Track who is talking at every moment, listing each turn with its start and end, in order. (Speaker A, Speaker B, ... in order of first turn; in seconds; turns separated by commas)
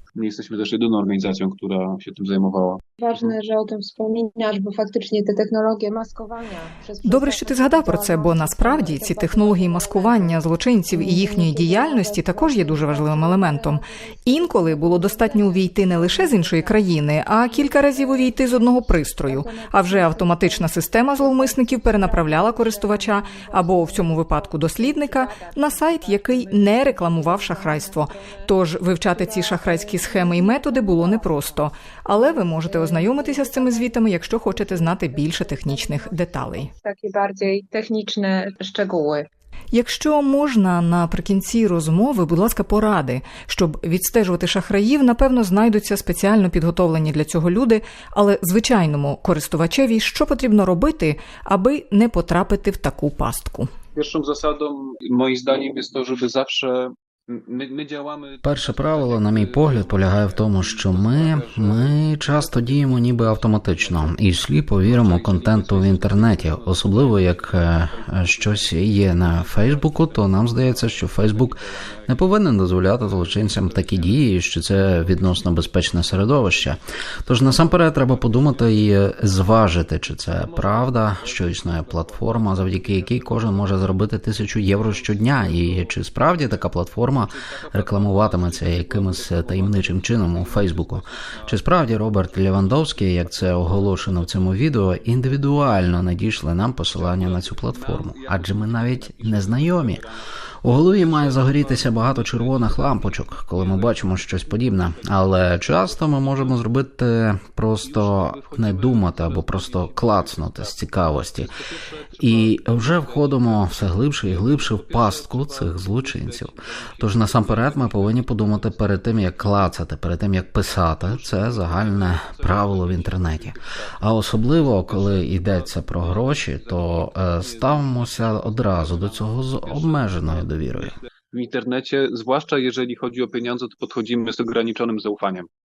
Speaker A: 0.1-2.8, Speaker B: 3.0-10.4, Speaker C: 7.0-36.7, Speaker B: 10.9-28.5, Speaker B: 29.1-39.3, Speaker C: 39.7-53.7, Speaker A: 53.9-64.2, Speaker D: 58.4-100.0, Speaker A: 64.8-94.8, Speaker A: 96.9-106.7, Speaker D: 100.6-111.5, Speaker A: 107.8-119.6, Speaker D: 112.2-130.9, Speaker A: 121.0-135.5